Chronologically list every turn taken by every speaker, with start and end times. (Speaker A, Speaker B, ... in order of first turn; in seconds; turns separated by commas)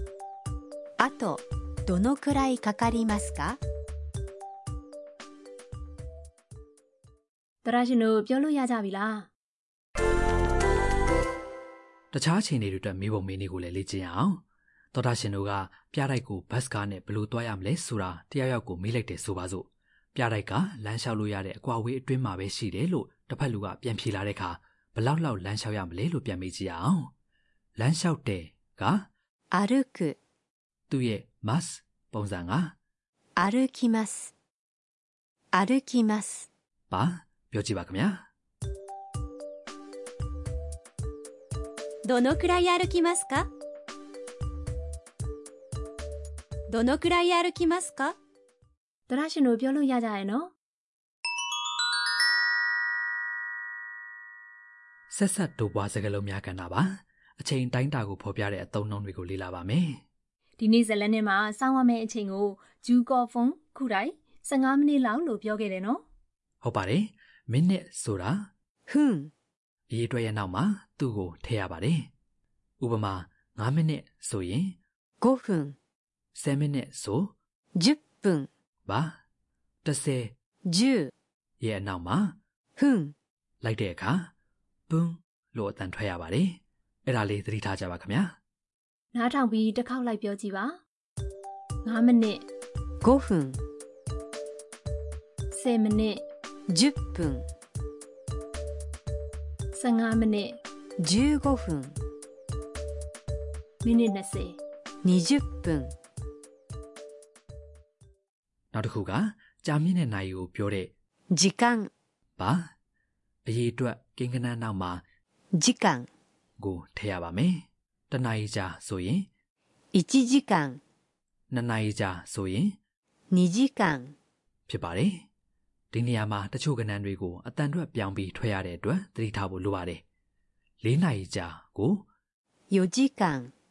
Speaker A: 1.0-3.6, Speaker B: 7.6-9.3, Speaker C: 12.1-14.4, Speaker C: 14.9-27.1, Speaker C: 27.8-29.1, Speaker A: 29.5-30.2, Speaker C: 30.9-32.8, Speaker A: 33.4-34.3, Speaker A: 35.5-36.5, Speaker C: 36.9-38.3, Speaker A: 42.0-43.5, Speaker A: 46.7-48.1, Speaker B: 49.1-50.5, Speaker C: 55.1-60.0, Speaker B: 60.6-66.0, Speaker C: 66.6-68.5, Speaker A: 68.9-69.3, Speaker C: 69.9-72.1, Speaker C: 72.8-74.8, Speaker A: 75.2-75.8, Speaker C: 76.3-77.3, Speaker A: 77.8-78.5, Speaker C: 78.8-79.2, Speaker C: 79.8-80.3, Speaker A: 80.7-81.1, Speaker C: 81.6-82.4, Speaker A: 82.8-83.1, Speaker C: 83.6-84.3, Speaker C: 84.9-88.4, Speaker B: 89.1-90.8, Speaker B: 91.8-92.5, Speaker A: 93.0-93.6, Speaker B: 95.5-96.2, Speaker A: 96.7-97.4, Speaker B: 99.7-100.6, Speaker A: 101.0-102.0, Speaker B: 103.8-104.6, Speaker A: 105.0-105.9, Speaker C: 108.7-110.9, Speaker A: 111.3-111.9, Speaker C: 112.4-112.7, Speaker C: 113.5-115.0, Speaker A: 115.6-116.1, Speaker C: 116.6-119.3, Speaker A: 119.9-120.8, Speaker C: 121.5-122.8, Speaker A: 123.3-124.1, Speaker C: 124.7-125.2, Speaker C: 125.9-130.0, Speaker C: 130.8-132.1, Speaker A: 132.7-133.5